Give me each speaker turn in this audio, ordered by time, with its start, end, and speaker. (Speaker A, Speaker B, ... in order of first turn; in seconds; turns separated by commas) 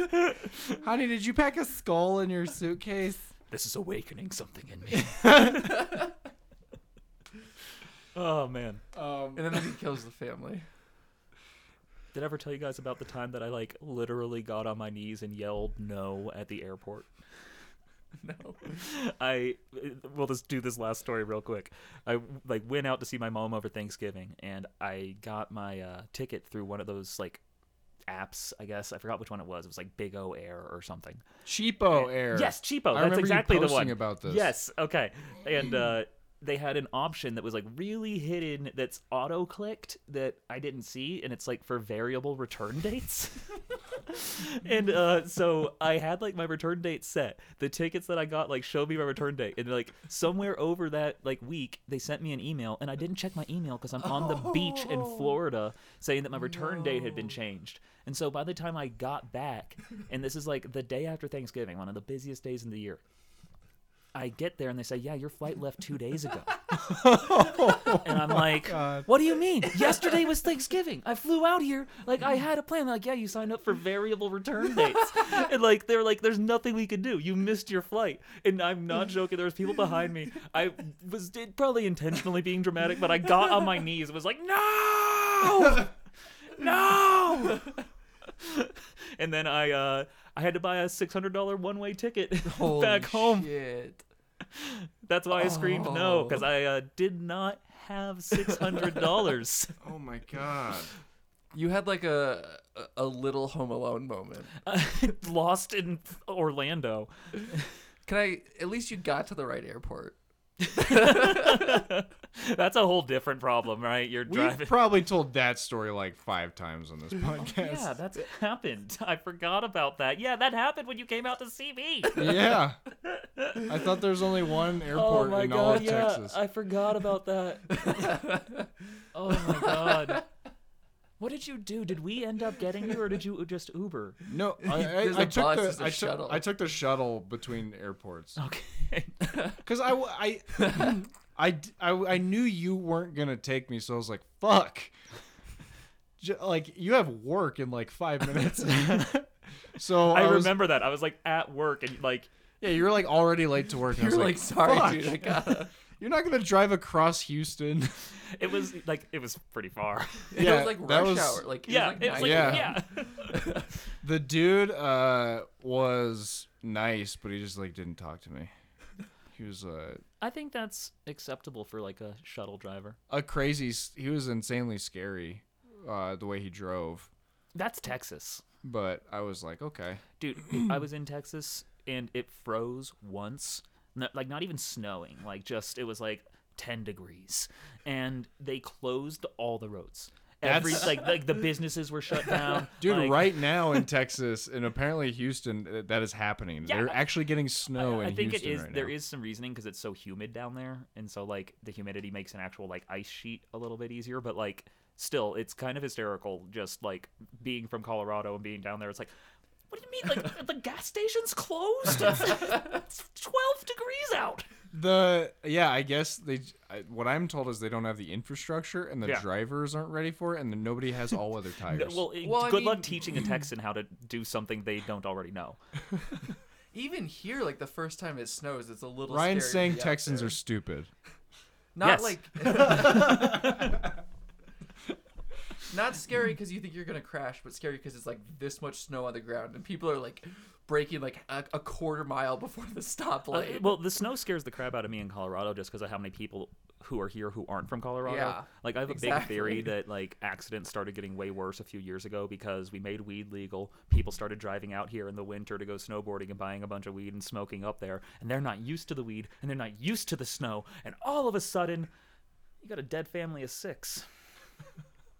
Speaker A: 0.8-3.2, Speaker B: 3.5-5.6, Speaker A: 5.1-6.0, Speaker C: 5.4-5.9, Speaker B: 8.1-8.8, Speaker A: 8.9-9.5, Speaker C: 9.3-10.6, Speaker B: 12.1-17.1, Speaker C: 18.2-18.7, Speaker B: 18.7-27.4, Speaker B: 28.1-31.2, Speaker A: 31.4-34.5, Speaker B: 31.9-63.0, Speaker C: 54.1-55.3, Speaker C: 56.5-57.3, Speaker B: 64.1-66.6, Speaker A: 66.7-69.1, Speaker B: 67.5-85.9, Speaker B: 86.5-87.7, Speaker B: 88.4-93.5, Speaker C: 92.4-94.0, Speaker B: 94.5-99.7, Speaker C: 95.3-96.5, Speaker A: 99.8-100.9, Speaker C: 101.5-104.5, Speaker B: 104.6-107.1, Speaker C: 108.0-110.2, Speaker B: 110.6-114.9, Speaker C: 110.8-111.8, Speaker A: 114.3-117.9, Speaker B: 117.5-122.5, Speaker A: 122.1-122.8, Speaker B: 123.0-123.6, Speaker A: 123.6-126.4, Speaker B: 124.9-128.1, Speaker C: 127.7-128.7, Speaker B: 129.1-130.2, Speaker C: 129.3-130.2, Speaker B: 131.2-134.2, Speaker A: 134.3-138.4, Speaker C: 134.6-136.4, Speaker B: 138.4-139.1, Speaker A: 139.6-144.9, Speaker A: 146.2-150.6, Speaker B: 150.1-152.3, Speaker A: 152.6-158.1, Speaker C: 153.9-155.7, Speaker B: 158.2-160.3, Speaker C: 160.3-163.7, Speaker A: 160.3-161.5, Speaker B: 161.7-163.5, Speaker A: 162.0-162.8, Speaker A: 164.0-168.5, Speaker A: 169.3-170.0, Speaker B: 170.2-173.0, Speaker A: 173.1-177.1, Speaker B: 177.5-178.4, Speaker A: 178.6-180.0, Speaker B: 180.2-193.3, Speaker A: 190.4-191.1, Speaker A: 192.8-199.0, Speaker B: 196.7-209.1, Speaker B: 209.7-214.5, Speaker A: 214.7-222.0, Speaker B: 221.7-225.6, Speaker C: 222.2-223.1, Speaker C: 226.7-230.3, Speaker A: 229.1-230.9, Speaker C: 231.7-233.6, Speaker B: 231.8-232.2, Speaker A: 233.1-233.6, Speaker C: 235.7-243.7, Speaker B: 243.3-261.9, Speaker C: 248.0-249.7, Speaker B: 262.6-264.1